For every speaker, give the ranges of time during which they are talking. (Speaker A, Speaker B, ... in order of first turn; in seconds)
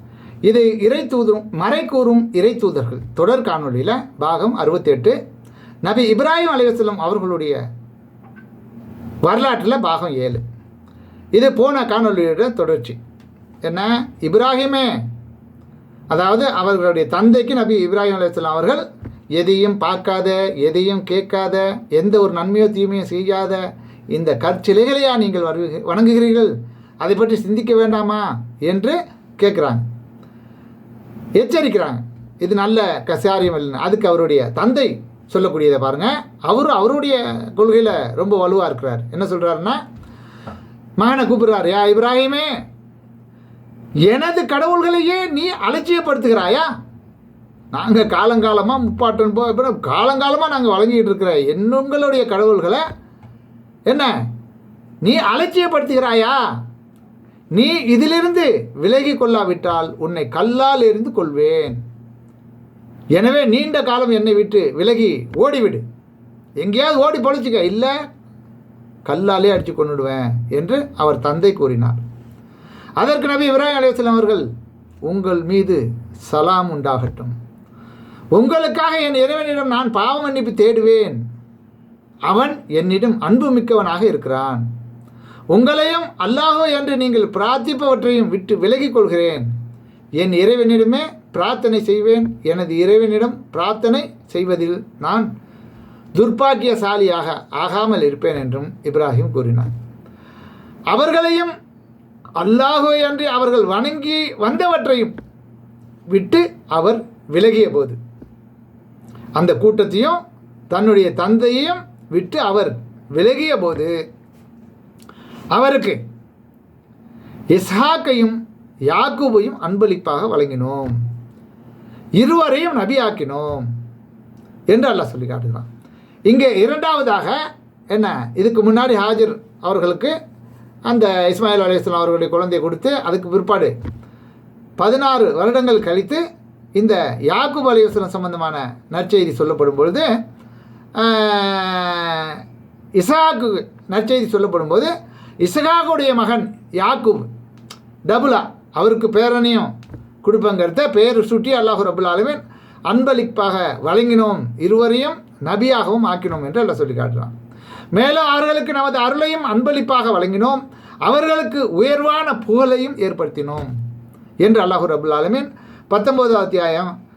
Speaker A: 0.4-5.2, 5.8-7.6, 9.2-10.4, 11.3-13.0, 13.6-15.0, 16.1-18.8, 19.3-29.8, 31.4-39.8, 41.0-42.5, 44.1-46.7, 47.7-52.8, 53.9-54.1, 55.0-56.4, 57.5-61.8, 63.1-65.8, 66.6-67.9, 69.0-72.0, 73.0-74.5, 75.0-77.3, 78.3-81.2, 82.3-84.6, 85.5-89.5, 90.2-95.3, 96.1-99.7, 100.9-101.5, 102.4-105.1, 106.1-108.0, 109.3-110.2, 110.7-113.9, 115.5-116.0, 117.5-121.0, 122.2-123.7, 124.7-125.7, 126.3-127.4, 127.9-130.1, 130.9-133.7, 134.8-136.2, 136.8-140.1, 141.0-142.4, 142.9-144.9, 145.4-147.3, 148.1-149.7, 150.2-157.3, 157.9-163.7, 164.4-166.9